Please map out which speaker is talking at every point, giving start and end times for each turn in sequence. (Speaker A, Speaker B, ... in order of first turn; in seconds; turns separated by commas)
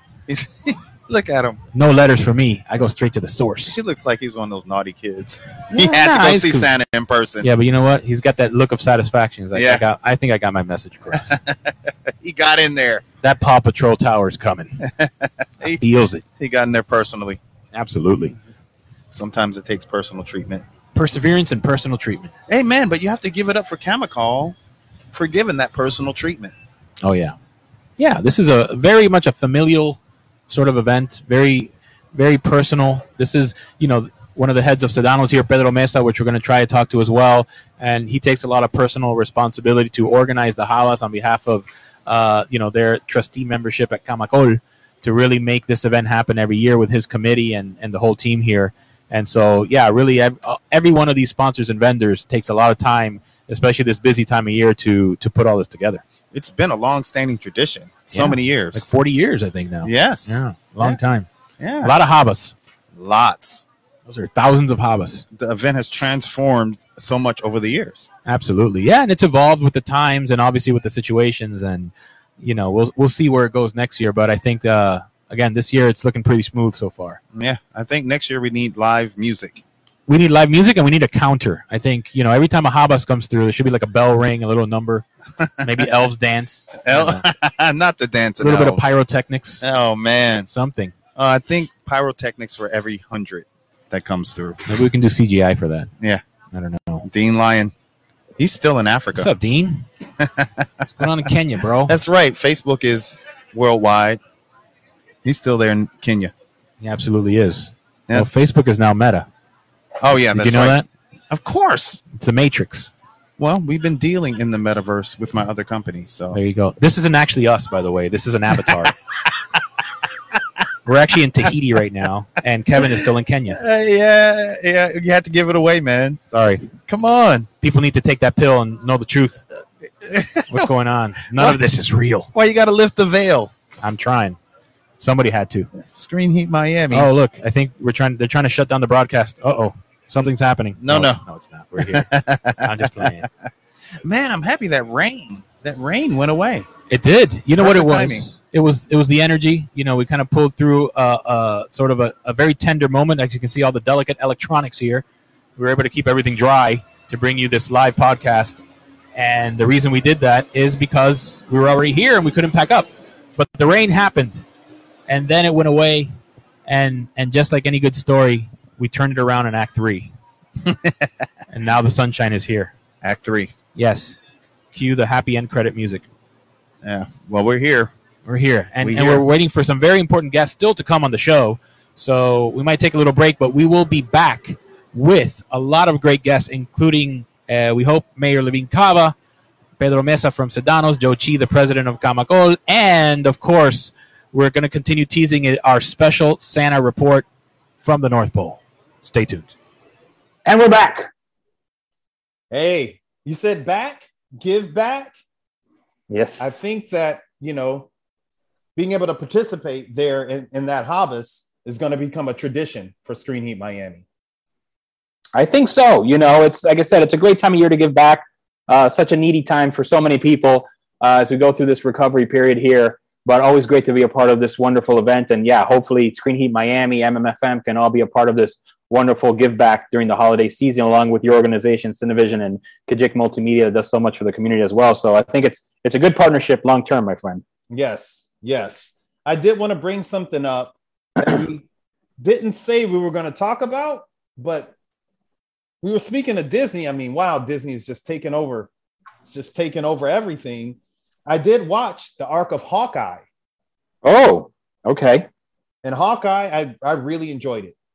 Speaker A: 0.3-1.6, Speaker B: 1.7-3.8, Speaker A: 3.6-7.5, Speaker B: 5.7-6.7, Speaker B: 7.4-11.4, Speaker A: 9.5-9.8, Speaker A: 11.1-13.1, Speaker B: 13.2-14.8, Speaker A: 14.8-15.8, Speaker B: 15.6-16.2, Speaker A: 16.4-17.4, Speaker B: 17.7-18.4, Speaker A: 19.1-20.6, Speaker B: 20.9-22.3, Speaker A: 22.5-24.6, Speaker A: 25.1-26.5, Speaker B: 27.0-27.4, Speaker B: 28.0-56.0, Speaker A: 56.3-58.9, Speaker B: 58.1-61.3, Speaker A: 59.8-61.0, Speaker A: 61.6-62.0, Speaker B: 61.8-62.5, Speaker A: 63.0-63.7, Speaker B: 64.1-65.2, Speaker A: 65.3-68.1, Speaker B: 68.3-77.2, Speaker A: 77.3-79.6, Speaker B: 80.1-85.0, Speaker A: 85.4-85.9, Speaker B: 85.6-87.2, Speaker A: 86.8-89.0, Speaker B: 88.4-89.6, Speaker A: 89.6-90.5, Speaker B: 90.5-91.0, Speaker A: 91.2-94.6, Speaker B: 94.7-95.9, Speaker B: 96.5-97.1, Speaker A: 97.0-97.7, Speaker A: 98.4-99.3, Speaker B: 99.2-99.8, Speaker A: 100.2-101.1, Speaker B: 101.0-101.9, Speaker A: 101.9-104.2, Speaker A: 105.2-106.3, Speaker B: 106.8-109.3, Speaker A: 110.0-112.0, Speaker B: 110.1-110.9, Speaker B: 112.1-112.9, Speaker A: 113.4-116.4, Speaker B: 116.3-118.9, Speaker A: 118.6-118.9, Speaker B: 120.9-123.6, Speaker A: 122.8-126.2, Speaker B: 126.3-126.7, Speaker A: 126.9-127.5, Speaker B: 127.6-129.4, Speaker A: 130.0-130.7, Speaker B: 130.5-132.3, Speaker A: 131.3-131.6, Speaker A: 132.3-133.5, Speaker B: 133.8-134.4, Speaker B: 135.0-135.7, Speaker A: 135.8-137.1, Speaker B: 136.9-142.1, Speaker A: 140.8-141.2, Speaker A: 141.8-143.3, Speaker B: 142.6-143.2, Speaker A: 144.1-146.7, Speaker B: 146.9-155.0, Speaker A: 147.6-148.3, Speaker B: 155.6-158.6, Speaker B: 159.2-164.4, Speaker B: 165.1-166.1, Speaker B: 166.7-170.1, Speaker A: 170.7-171.1, Speaker B: 171.5-172.7, Speaker A: 173.0-173.5, Speaker B: 173.8-174.2, Speaker B: 174.7-176.1, Speaker A: 176.8-177.9, Speaker B: 178.3-189.2, Speaker A: 178.8-179.2, Speaker B: 189.8-197.3, Speaker B: 197.8-199.5, Speaker C: 200.5-201.1, Speaker D: 202.5-205.2, Speaker C: 206.1-206.6, Speaker D: 206.4-207.9, Speaker D: 208.8-214.1, Speaker C: 215.3-237.4, Speaker D: 237.7-241.7, Speaker D: 242.2-244.7, Speaker D: 245.8-248.7, Speaker D: 249.2-253.2, Speaker C: 254.0-255.3, Speaker D: 255.8-257.8